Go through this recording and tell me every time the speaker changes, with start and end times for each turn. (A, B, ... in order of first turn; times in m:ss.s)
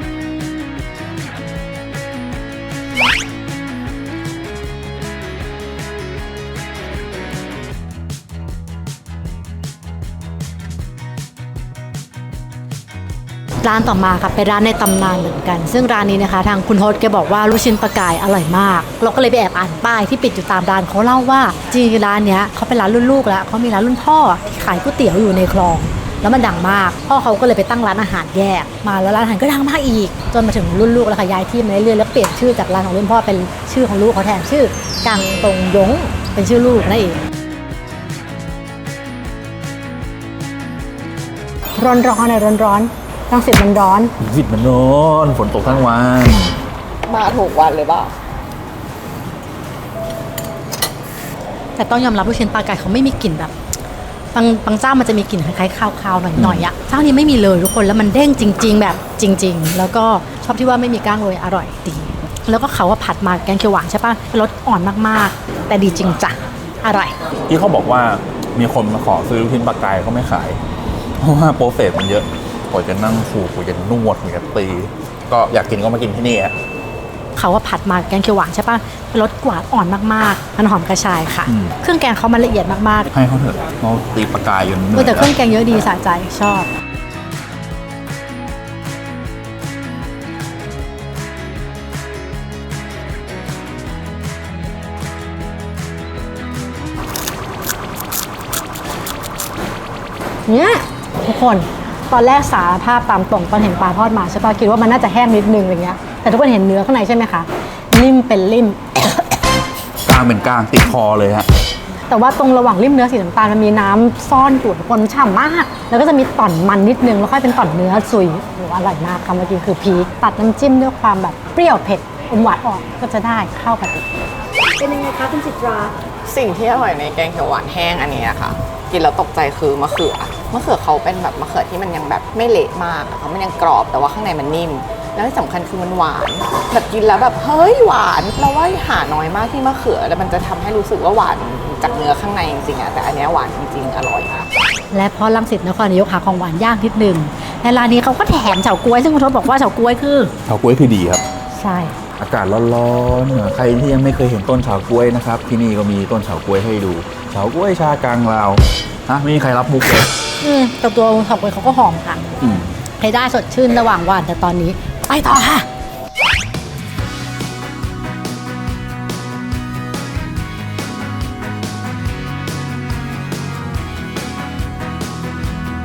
0:13.6-0:37.2 A
0:41.8-0:44.1 A
0:44.2-0:46.6 B
0:47.1-0:48.1 C
0:51.8-0:53.5 A
0:54.3-1:07.1 A
0:56.4-0:56.7 B
1:07.5-1:10.6 B
1:11.2-1:16.6 B
1:17.4-1:23.1 A
1:21.5-1:21.8 B
1:23.1-1:25.3 B
1:24.9-1:26.7 A
1:40.5-1:49.2 A
1:50.1-1:51.5 B
1:52.1-2:04.1 A
2:04.8-2:05.8 A
2:04.8-2:24.5 C
2:24.9-2:30.3 A
2:30.5-2:31.2 B
2:31.5-2:32.0 A
2:32.2-2:40.2 B
2:40.4-2:42.3 A
2:42.4-2:42.7 B
2:43.0-2:45.7 A